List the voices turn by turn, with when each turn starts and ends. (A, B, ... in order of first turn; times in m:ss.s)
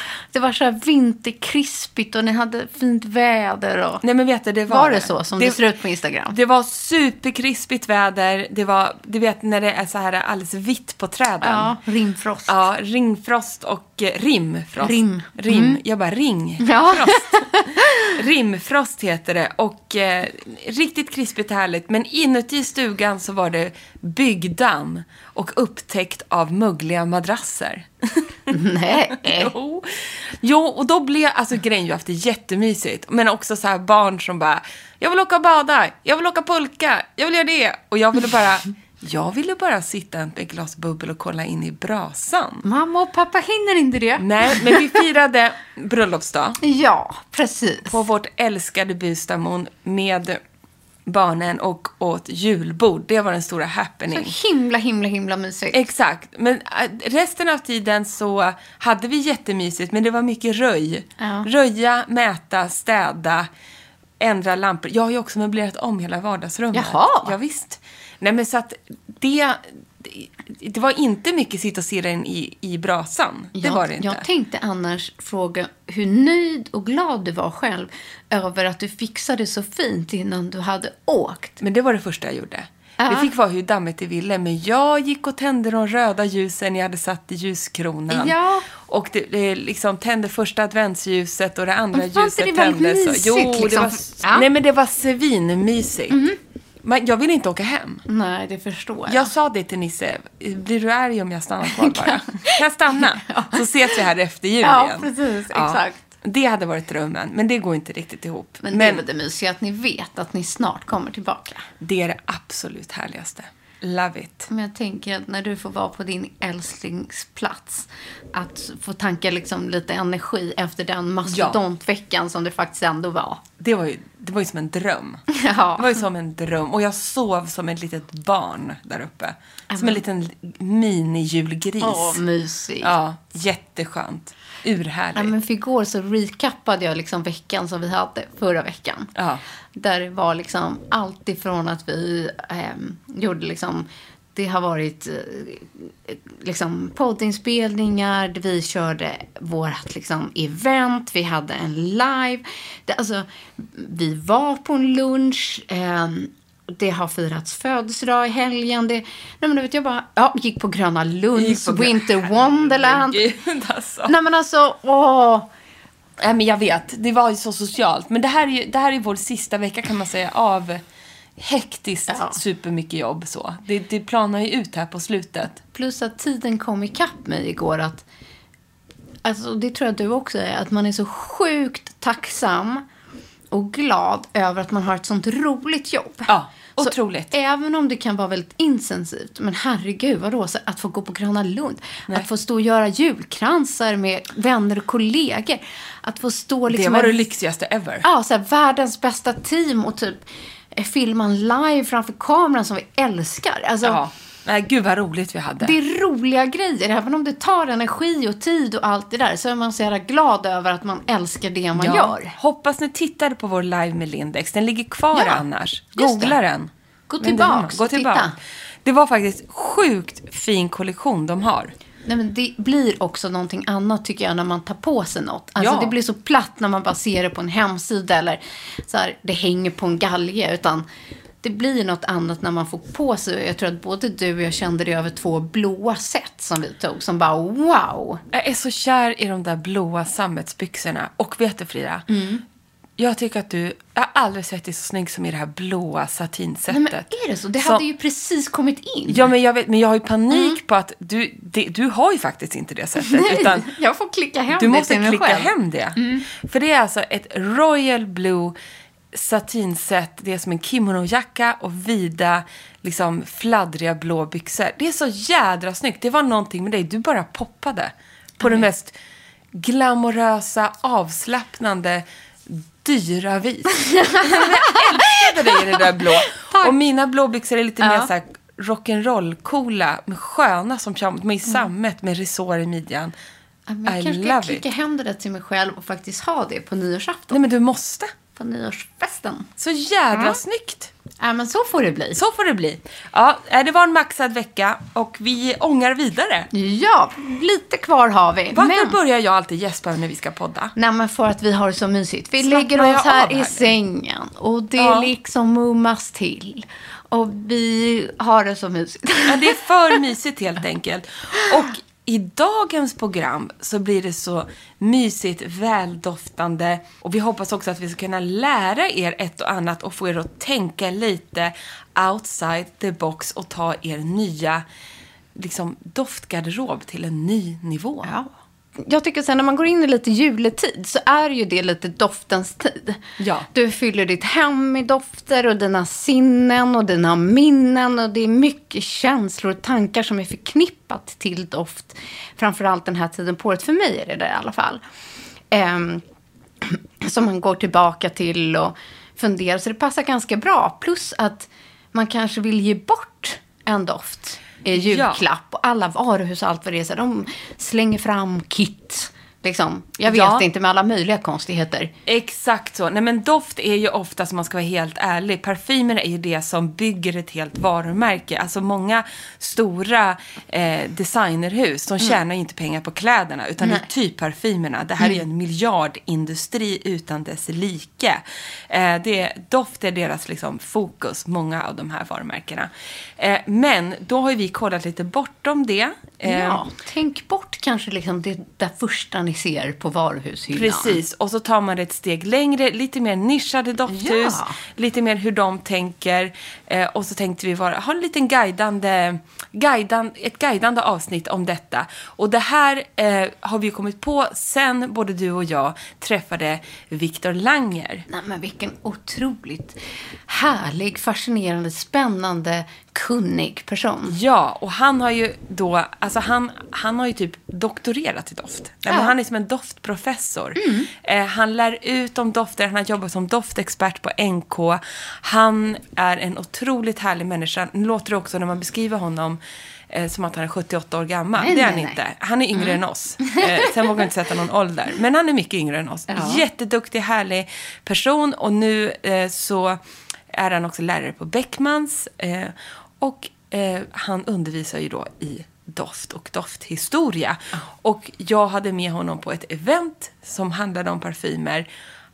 0:00.3-0:04.0 A
0:04.0-0:05.6 B
0:04.7-0:06.3 A
0:06.3-0:11.7 B
0:11.4-0:12.6 A
0:12.4-0:28.5 B
0:14.8-0:15.8 A
0:16.6-0:18.1 A
0:28.5-0:29.5 A
0:29.1-0:42.6 B
0:42.6-0:45.0 A
0:44.2-0:46.6 B
0:46.6-0:48.0 A
0:47.9-0:50.4 B
0:51.0-0:54.3 B
0:54.1-0:55.8 A
0:55.7-1:03.5 B
1:01.2-1:01.5 A
1:04.2-1:14.2 B
1:06.7-1:07.3 A
1:13.6-1:21.6 A
1:21.6-1:36.2 B
1:23.0-1:23.3 A
1:28.1-1:28.7 A
1:31.9-1:34.5 A
1:36.1-1:36.4 A
1:36.8-1:38.0 B
1:38.1-1:39.3 A
1:39.0-1:49.0 B
1:41.7-1:44.0 A
1:44.6-1:46.0 A
1:48.6-1:51.7 A
1:51.8-1:54.5 B
1:54.5-2:03.4 A
2:01.3-2:01.6 B
2:03.6-2:05.2 B
2:05.3-2:06.0 A
2:05.8-2:12.2 B
2:09.7-2:10.0 A
2:11.8-2:12.9 A
2:12.8-2:15.3 B
2:15.1-2:19.1 A
2:19.1-2:19.4 B
2:19.8-2:43.2 A
2:41.3-2:44.1 B
2:44.1-2:45.5 A
2:46.2-2:50.8 B
2:51.4-2:55.6 B
2:52.1-2:52.4 A
2:55.7-2:58.0 A
2:59.2-3:02.8 A
3:03.5-3:17.2 A
3:06.3-3:07.3 B
3:16.7-3:18.0 B
3:18.0-3:20.2 A
3:20.7-3:24.0 A
3:23.8-3:25.8 B
3:25.6-3:32.3 A
3:31.7-3:41.7 B
3:35.1-3:35.4 A
3:35.9-3:36.4 A
3:37.1-3:38.4 A
3:42.0-3:50.8 A
3:45.6-3:46.0 B
3:51.4-3:58.2 A
3:58.3-4:02.0 B
4:02.1-4:02.4 A
4:03.0-4:07.8 B
4:06.7-4:09.3 A
4:09.1-4:13.7 B
4:10.3-4:10.6 A
4:13.0-4:16.2 A
4:14.5-4:18.6 B
4:19.1-4:28.9 B
4:28.4-4:28.7 A
4:29.5-4:43.1 B
4:33.8-4:36.7 A
4:37.8-4:38.1 A
4:43.7-4:47.4 A
4:43.8-4:44.6 B
4:47.3-4:48.1 B
4:48.3-4:49.5 A
4:49.6-4:50.9 B
4:50.1-4:50.4 A
4:51.2-4:52.2 A
4:52.1-4:56.5 B
4:56.5-4:59.0 A
4:58.5-5:00.7 B
5:00.8-5:09.6 A
5:02.4-5:03.7 B
5:04.8-5:05.1 B
5:09.2-5:24.6 B
5:25.3-5:28.1 B
5:28.0-5:44.8 A
5:33.2-5:33.5 B
5:45.5-5:46.0 A
5:46.6-6:01.9 A
5:54.7-5:55.2 B
6:00.0-6:00.4 B
6:02.0-6:26.6 B
6:13.6-6:13.9 A
6:26.2-6:31.0 A
6:30.5-6:48.0 B
6:33.9-6:34.6 A
6:48.1-6:54.2 A
6:54.1-7:09.4 B
6:58.9-6:59.1 A
7:00.6-7:00.9 A
7:09.9-7:19.8 B
7:11.4-7:12.0 A
7:12.5-7:14.0 A
7:16.1-7:16.4 A
7:20.3-7:31.7 B